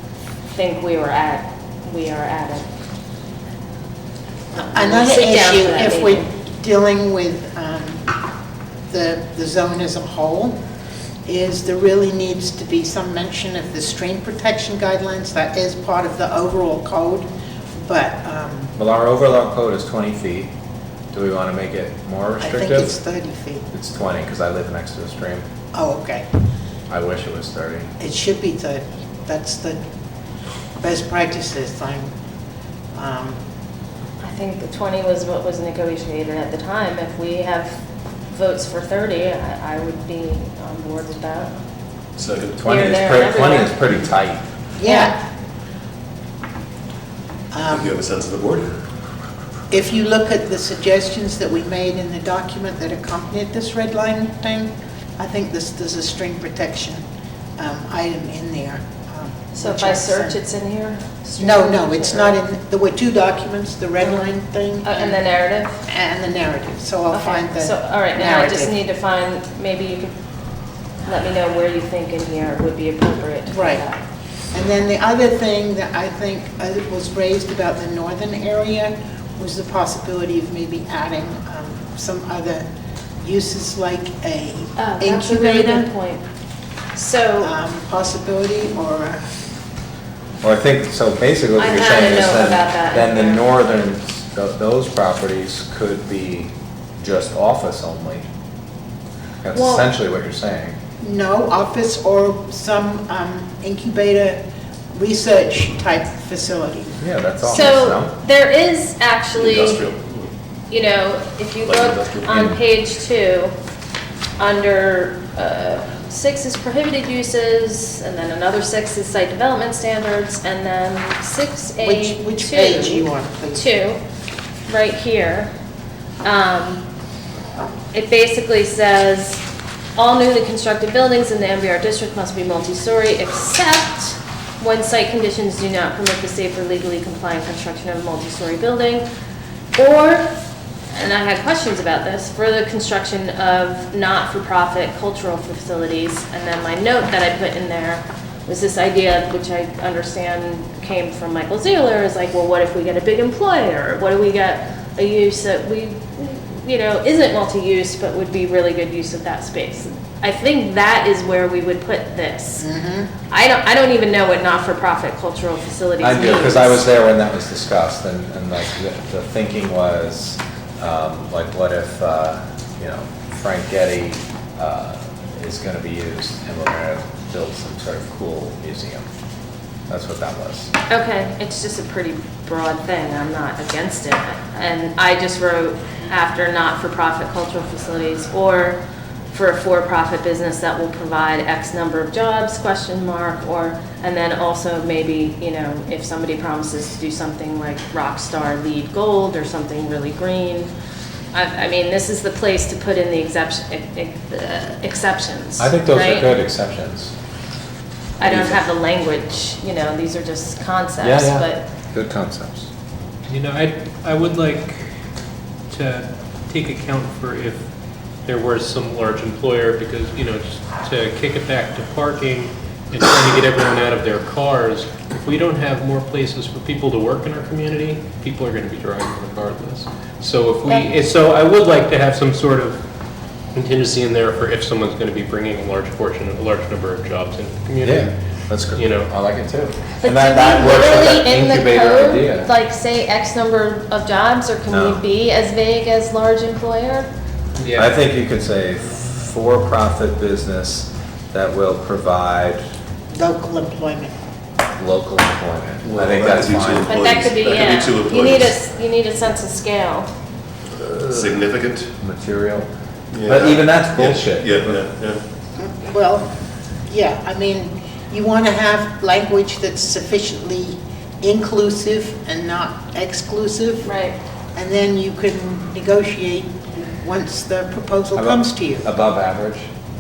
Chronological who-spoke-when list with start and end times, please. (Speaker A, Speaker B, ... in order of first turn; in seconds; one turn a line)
Speaker A: 0.5-2.7
Speaker B: 4.5-8.1
Speaker A: 4.6-6.3
Speaker B: 8.9-10.6
Speaker B: 11.3-18.7
Speaker C: 18.8-20.5
Speaker C: 21.1-23.0
Speaker B: 22.4-23.6
Speaker C: 23.7-25.5
Speaker B: 25.7-26.3
Speaker C: 26.9-27.9
Speaker B: 28.0-29.8
Speaker B: 30.8-32.1
Speaker B: 32.9-33.4
Speaker A: 34.2-41.5
Speaker D: 42.2-42.6
Speaker C: 42.5-44.5
Speaker A: 42.7-43.8
Speaker B: 44.8-45.2
Speaker A: 44.8-45.2
Speaker B: 47.5-47.9
Speaker D: 47.7-48.7
Speaker B: 49.7-57.0
Speaker B: 57.6-60.4
Speaker A: 59.5-62.4
Speaker B: 61.4-65.3
Speaker A: 64.0-65.8
Speaker B: 65.8-68.8
Speaker A: 67.1-70.1
Speaker A: 71.1-74.0
Speaker B: 73.5-73.8
Speaker B: 74.5-82.7
Speaker B: 83.2-85.9
Speaker A: 84.8-86.2
Speaker A: 86.9-87.5
Speaker B: 87.4-89.2
Speaker C: 90.4-98.3
Speaker A: 91.6-93.4
Speaker C: 99.4-100.8
Speaker A: 99.5-99.9
Speaker B: 101.0-104.4
Speaker B: 104.9-107.0
Speaker C: 107.0-108.2
Speaker A: 107.4-109.9
Speaker D: 109.3-110.3
Speaker A: 110.7-113.5
Speaker D: 111.6-112.3
Speaker C: 112.3-112.6
Speaker A: 114.4-124.0
Speaker B: 121.8-123.7
Speaker A: 124.7-125.5
Speaker A: 126.2-126.8
Speaker A: 127.9-129.4
Speaker A: 130.0-139.1
Speaker A: 139.8-140.3
Speaker A: 140.9-162.7
Speaker B: 162.6-163.1
Speaker A: 163.3-166.8
Speaker C: 166.0-179.1
Speaker C: 179.9-180.7
Speaker A: 180.9-188.8
Speaker A: 189.3-200.7
Speaker A: 201.3-206.3
Speaker C: 205.6-207.1
Speaker A: 208.2-211.7
Speaker C: 208.2-208.6
Speaker C: 211.0-212.7
Speaker E: 213.3-214.8
Speaker E: 215.7-217.6
Speaker E: 218.2-232.8
Speaker E: 233.5-238.1
Speaker C: 237.8-242.5
Speaker E: 238.7-239.1
Speaker A: 240.0-247.1
Speaker C: 244.7-245.0
Speaker E: 247.6-247.9
Speaker C: 247.8-252.6
Speaker B: 253.1-254.2
Speaker C: 254.8-257.4
Speaker D: 255.8-258.6
Speaker A: 256.9-260.1
Speaker D: 260.7-261.9
Speaker C: 261.1-261.4
Speaker C: 262.0-262.7
Speaker D: 263.1-265.2
Speaker C: 263.2-264.9
Speaker B: 265.6-266.3
Speaker B: 266.9-273.9
Speaker A: 273.8-274.2
Speaker B: 274.6-278.9
Speaker C: 278.1-279.7